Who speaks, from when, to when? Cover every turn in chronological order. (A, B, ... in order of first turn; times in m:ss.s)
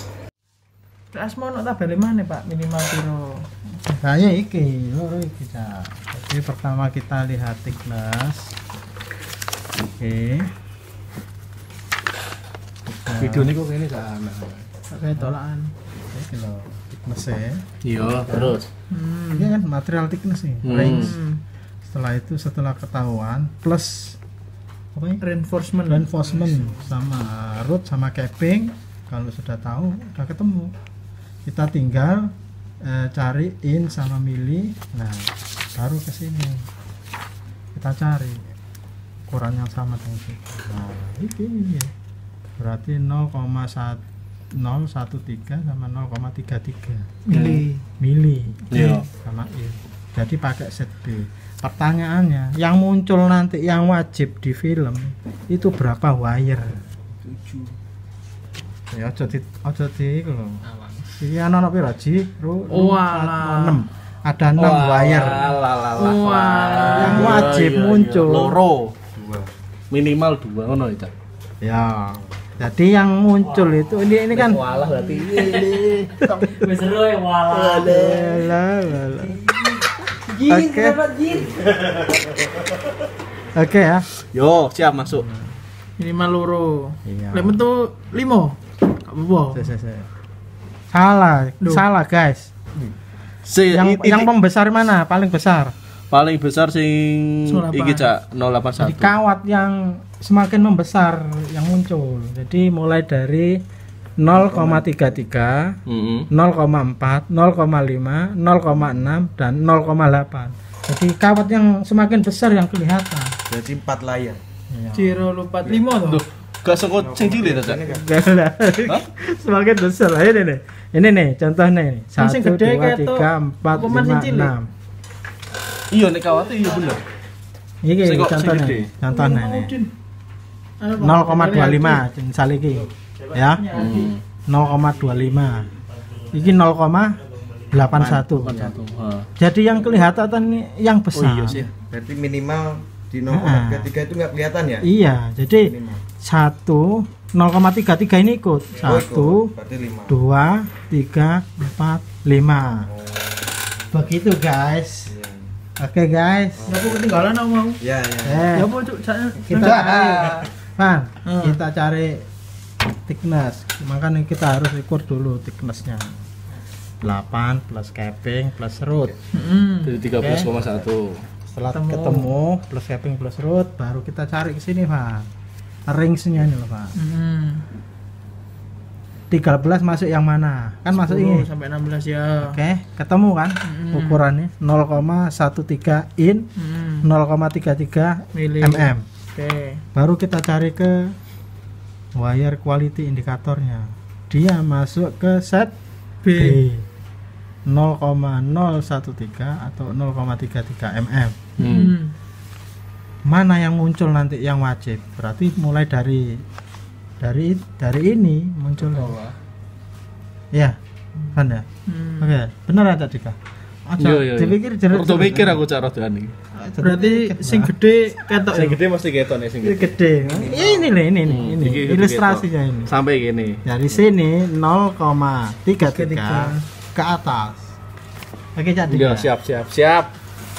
0:01.1-0:03.5 A
0:03.8-0:08.5 B
0:10.0-0:10.5 B
0:12.9-0:13.5 B
0:13.1-0:14.7 C
0:14.9-0:15.7 A
0:15.9-0:18.6 B
0:17.8-0:18.7 C
0:18.9-0:19.5 A
0:19.3-0:21.1 B
0:20.6-0:21.1 C
0:20.8-0:21.4 A
0:21.8-0:24.2 B
0:24.9-0:25.2 B
0:25.2-0:26.7 A
0:25.8-0:30.7 B
0:31.4-0:32.3 B
0:32.8-0:36.7 B
0:37.7-0:38.4 B
0:39.3-0:41.9 B
0:42.6-0:44.0 B
0:44.5-0:47.2 B
0:47.2-0:47.8 A
0:47.3-0:47.6 C
0:48.0-0:56.8 B
0:48.7-0:49.1 C
0:57.2-0:57.7 C
0:58.9-1:00.6 B
1:01.2-1:05.6 B
1:02.7-1:03.8 A
1:04.6-1:09.0 C
1:06.0-1:07.4 A
1:06.9-1:08.6 B
1:09.1-1:09.5 D
1:09.9-1:11.1 C
1:11.6-1:14.6 B
1:14.3-1:16.2 C
1:16.2-1:16.6 B
1:16.4-1:18.3 A
1:17.1-1:18.1 C
1:17.8-1:19.4 B
1:20.3-1:21.5 A
1:20.4-1:21.0 B
1:21.5-1:22.2 C
1:23.5-1:24.1 B
1:24.3-1:25.2 C
1:25.2-1:25.6 B
1:26.0-1:29.6 A
1:27.0-1:27.6 B
1:29.5-1:30.1 B
1:30.9-1:32.5 B
1:33.4-1:34.3 C
1:33.7-1:35.7 B
1:36.1-1:39.1 C
1:37.4-1:38.1 A
1:38.8-1:43.6 B
1:44.2-1:45.8 B
1:44.3-1:45.0 D
1:45.8-1:46.3 C
1:46.3-1:53.4 B
1:53.5-1:54.4 D
1:54.7-1:55.2 B
1:54.9-1:56.2 A
1:56.0-1:57.8 C
1:56.9-1:58.1 D
1:57.9-2:04.7 B
2:02.2-2:04.5 A
2:05.9-2:07.0 C
2:07.8-2:09.7 B
2:08.0-2:09.0 C
2:09.0-2:09.9 A
2:10.8-2:12.0 A
2:11.0-2:13.8 B
2:13.4-2:14.1 A
2:13.7-2:14.2 C
2:14.5-2:15.7 B
2:16.3-2:17.2 B
2:17.7-2:18.7 B
2:17.9-2:19.3 C
2:19.4-2:21.6 B
2:21.1-2:21.7 C
2:21.8-2:24.9 D
2:23.3-2:23.9 B
2:24.8-2:29.5 B
2:25.6-2:26.0 D
2:28.8-2:30.2 D
2:30.1-2:32.9 B
2:32.8-2:33.8 D
2:33.9-2:35.1 B
2:35.1-2:35.6 D
2:35.8-2:36.7 B
2:36.6-2:37.0 D
2:36.7-2:37.8 A
2:37.8-2:38.6 D
2:38.2-2:38.7 B
2:38.5-2:40.5 A
2:39.4-2:42.3 B
2:41.2-2:41.6 A
2:43.0-2:46.2 B
2:47.0-2:49.1 B
2:49.3-2:50.0 A
2:49.8-2:51.2 C
2:50.2-2:50.5 B
2:51.4-2:55.3 B
2:51.7-2:52.3 A
2:55.9-2:56.9 B
2:57.0-2:57.6 A
2:59.3-3:01.5 B
3:00.9-3:02.6 A
3:02.4-3:06.4 B
3:03.6-3:04.3 A
3:06.6-3:07.1 A
3:07.0-3:09.0 B
3:08.3-3:09.8 A
3:09.9-3:11.1 B
3:12.2-3:15.7 B
3:16.2-3:16.6 A
3:16.3-3:16.8 B
3:17.6-3:21.4 B
3:21.6-3:22.0 C
3:21.6-3:22.1 A
3:23.2-3:26.4 B
3:27.2-3:29.2 B
3:28.8-3:29.3 C
3:31.3-3:31.6 B
3:31.9-3:32.3 A
3:32.2-3:35.6 B
3:34.0-3:36.3 C
3:36.6-3:37.7 B
3:36.7-3:38.8 A
3:38.5-3:39.9 C
3:39.6-3:42.9 B
3:40.2-3:41.0 D
3:41.2-3:43.6 C
3:43.6-3:47.6 B
3:45.8-3:46.6 A
3:48.6-3:49.3 B
3:48.9-3:50.1 C